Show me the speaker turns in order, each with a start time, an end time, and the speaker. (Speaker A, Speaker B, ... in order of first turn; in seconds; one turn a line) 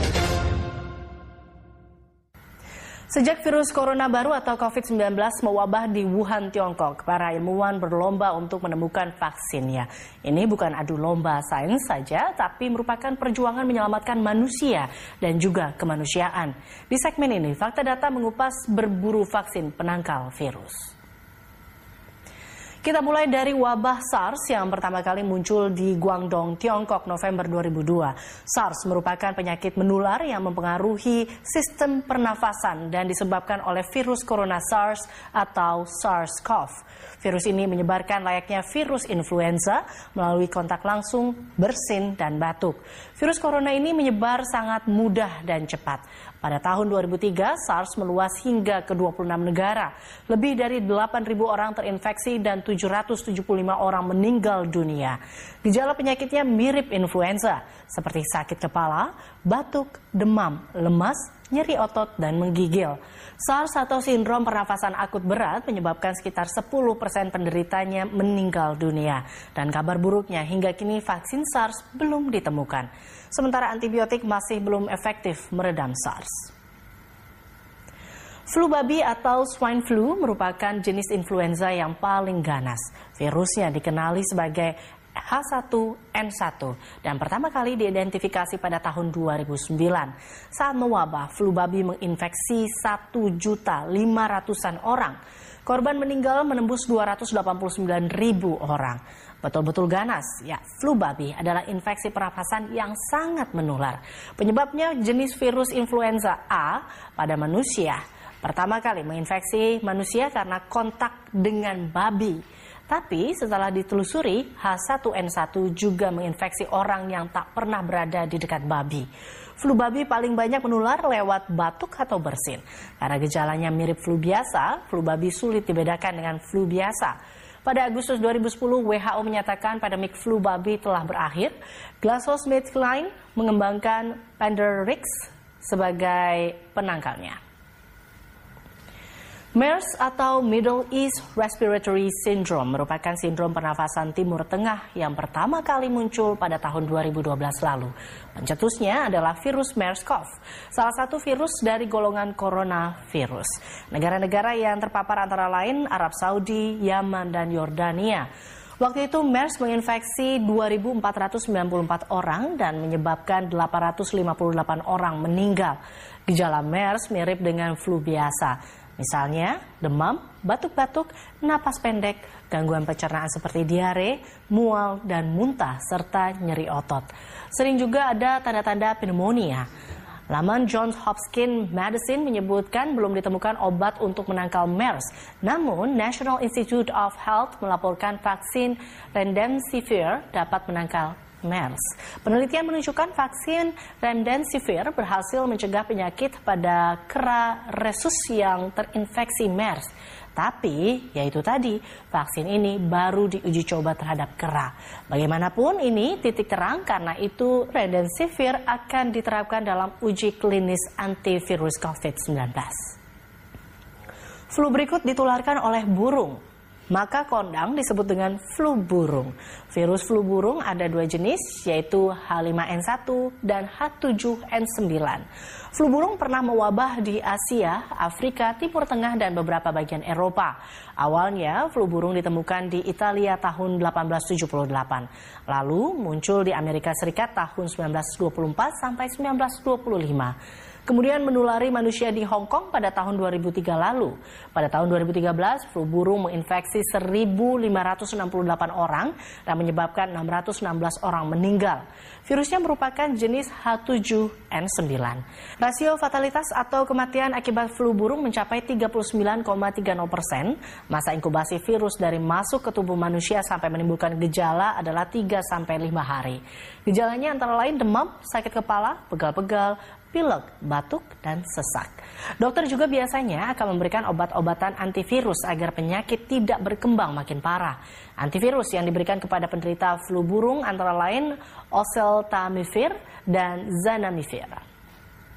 Speaker A: 3.1-20.9
Speaker A: 22.8-76.5
Speaker A: 78.5-119.1
Speaker A: 119.6-137.4
Speaker A: 139.6-158.3
Speaker A: 158.8-179.7
Speaker A: 180.3-212.9
Speaker A: 214.5-240.4
Speaker A: 240.9-284.6